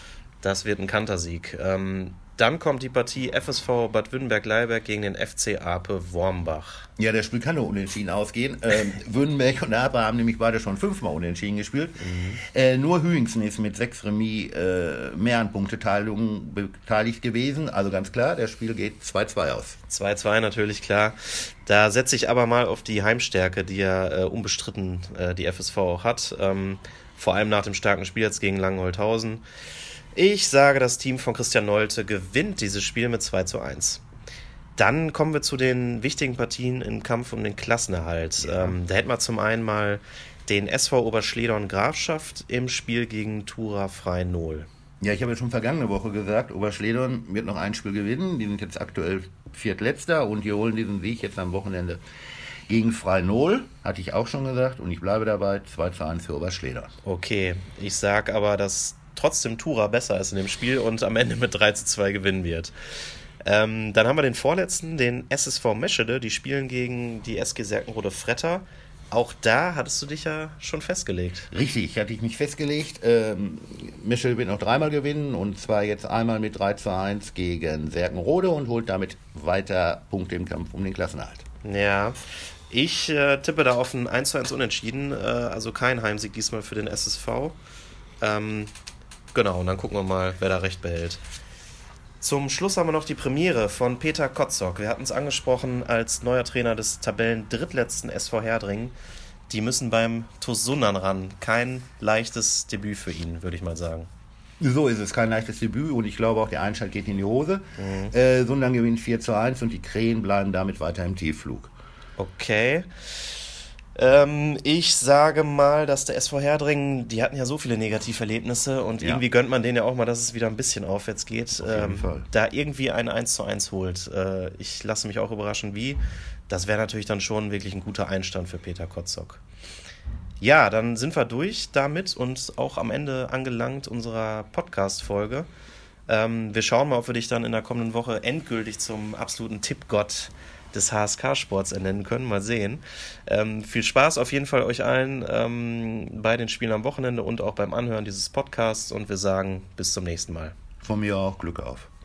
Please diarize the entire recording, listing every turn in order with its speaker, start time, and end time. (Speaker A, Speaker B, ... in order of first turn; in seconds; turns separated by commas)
Speaker A: 0.4-6.8, Speaker B: 7.0-19.8, Speaker A: 12.0-12.4, Speaker A: 19.9-29.4, Speaker A: 30.1-34.0, Speaker A: 34.8-44.7, Speaker B: 38.4-38.8, Speaker B: 45.0-52.0, Speaker B: 52.7-56.9, Speaker A: 57.0-62.7, Speaker A: 63.4-71.5, Speaker B: 71.5-81.4, Speaker A: 81.6-82.2, Speaker A: 82.7-87.5, Speaker A: 88.2-88.7, Speaker A: 89.3-91.2, Speaker A: 92.2-98.9, Speaker A: 99.5-104.1, Speaker B: 104.6-111.7, Speaker A: 107.8-108.1, Speaker A: 112.2-113.0, Speaker A: 113.9-129.4, Speaker B: 121.6-122.3, Speaker A: 130.4-135.5, Speaker A: 136.1-150.5, Speaker B: 150.8-151.9